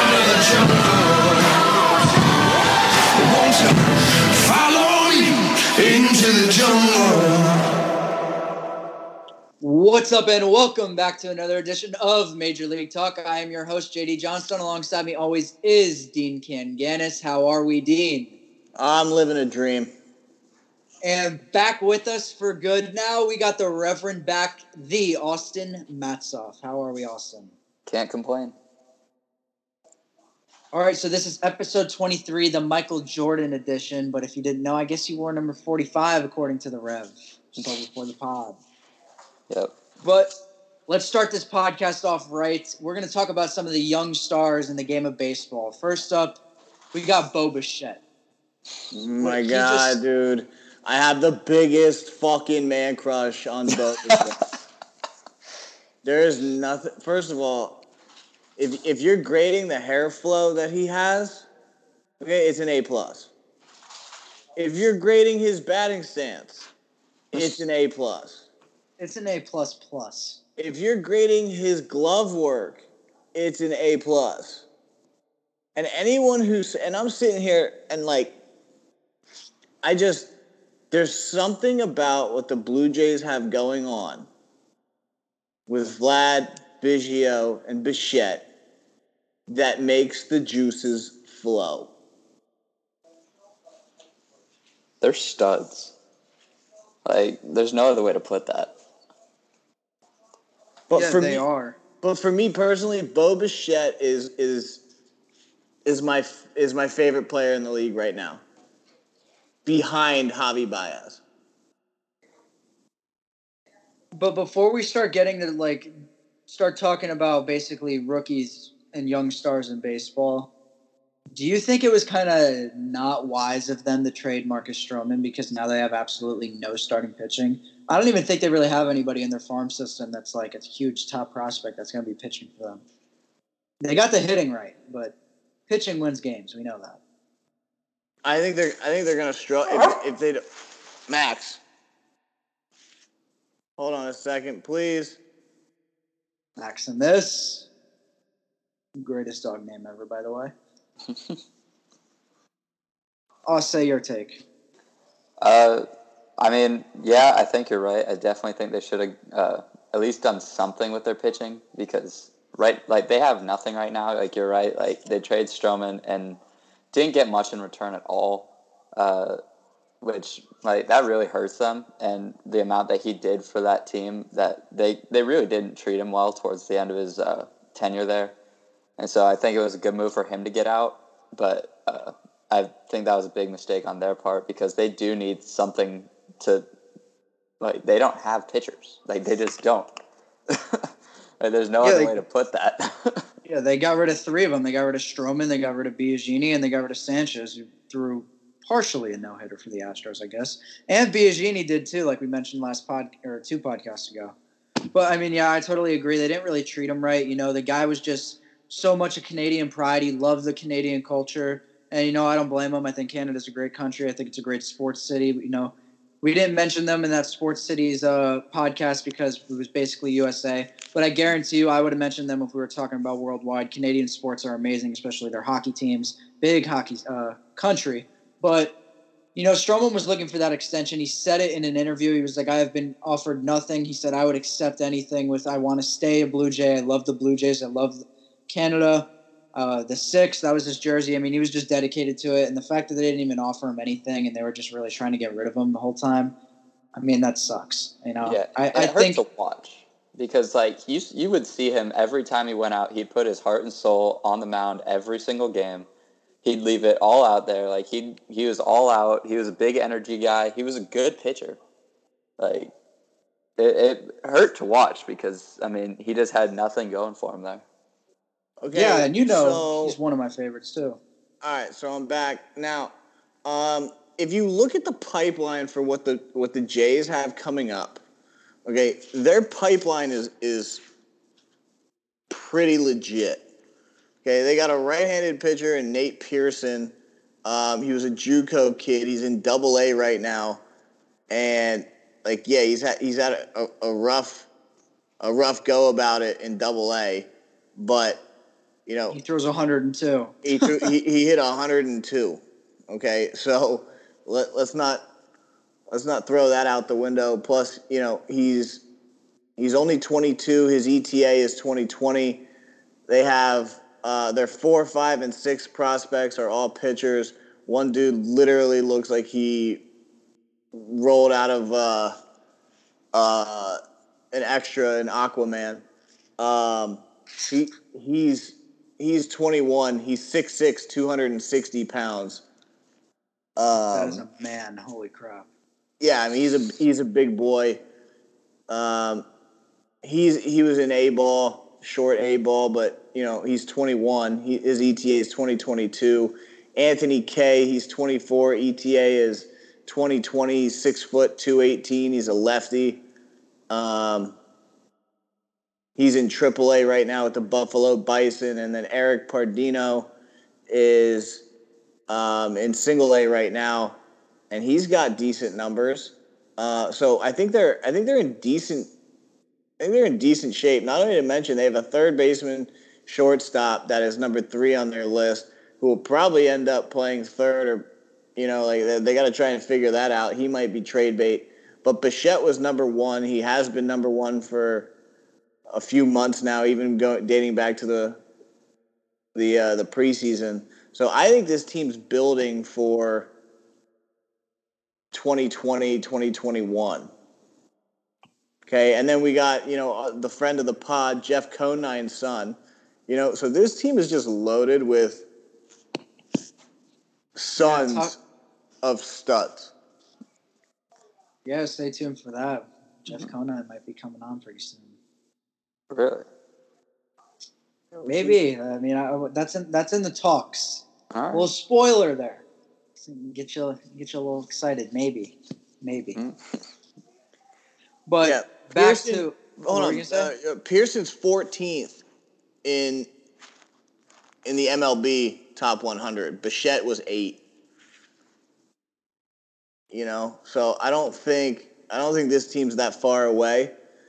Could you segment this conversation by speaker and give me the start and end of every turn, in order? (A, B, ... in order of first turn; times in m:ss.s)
0:09.6-0:18.3 A
0:18.8-0:19.9 B
0:21.0-0:27.5 A
0:27.8-0:28.5 C
0:30.7-0:38.6 A
0:40.0-0:46.4 A
0:46.9-0:48.0 A
0:48.9-0:54.4 B
0:49.2-0:50.0 A
0:56.0-0:57.8 B
0:58.6-1:01.5 B
1:02.2-1:03.3 B
1:04.6-1:06.7 B
1:07.3-1:08.5 B
1:09.0-1:10.4 A
1:10.6-1:14.6 B
1:15.8-1:18.4 B
1:19.8-1:20.3 B
1:20.9-1:24.3 B
1:25.7-1:28.5 B
1:29.5-1:31.9 B
1:35.0-1:35.9 C
1:37.0-1:38.7 C
1:40.9-1:41.4 B
1:40.9-1:41.8 A
1:42.0-1:44.8 B
1:45.8-1:48.4 B
1:49.6-1:51.2 B
1:54.1-1:55.9 A
1:56.5-2:00.5 A
2:01.3-2:12.8 A
2:13.8-2:15.1 A
2:15.7-2:17.0 A
2:18.2-2:20.4 B
2:21.1-2:21.6 B
2:23.8-2:25.2 B
2:26.6-2:27.7 A
2:29.0-2:30.5 A
2:33.5-2:34.4 A
2:35.4-2:35.8 C
2:36.4-2:46.4 C
2:46.9-2:49.4 C
2:50.0-2:58.3 C
2:59.0-3:06.6 C
3:07.6-3:09.9 C
3:10.5-3:13.2 C
3:11.8-3:12.2 A
3:13.4-3:24.3 A
3:24.9-3:48.7 A
3:49.3-4:06.3 A
4:06.9-4:09.2 A
4:08.2-4:15.9 C
4:16.4-4:21.6 C
4:22.4-4:22.7 C
4:23.6-4:27.6 C
4:28.6-4:30.0 B
4:28.7-4:31.0 A
4:31.4-4:32.9 B
4:33.4-4:38.0 B
4:38.6-4:40.8 B
4:42.3-4:43.4 B
4:44.2-4:50.6 B
4:51.3-4:54.5 B
4:55.2-4:58.2 B
4:58.8-4:59.2 B
4:59.1-5:00.9 A
5:00.4-5:05.0 B
5:05.9-5:08.8 B
5:09.6-5:12.4 B
5:13.1-5:19.8 B
5:20.7-5:22.2 B
5:23.1-5:23.8 B
5:24.3-5:25.8 B
5:26.4-5:32.4 B
5:33.6-5:34.2 B
5:33.8-5:35.5 A
5:36.0-5:37.8 B
5:38.7-5:39.2 B
5:40.0-5:53.0 B
5:53.7-5:54.4 B
5:56.0-6:00.1 B
6:00.7-6:01.4 B
6:02.1-6:04.0 B
6:04.5-6:08.9 B
6:09.8-6:24.9 B
6:25.7-6:28.2 B
6:29.3-6:33.3 B
6:35.1-6:37.1 B
6:38.7-6:42.6 B
6:43.1-6:45.2 B
6:47.4-6:48.2 B
6:47.6-6:48.1 A
6:48.8-6:49.7 B
6:51.4-6:55.0 A
6:55.9-6:56.3 C
6:57.9-6:58.4 B
6:58.0-7:02.4 A
7:01.1-7:01.5 C
7:03.0-7:06.2 A
7:08.0-7:10.3 A
7:08.2-7:12.0 B
7:12.6-7:13.1 B
7:14.4-7:17.4 B
7:19.9-7:23.7 B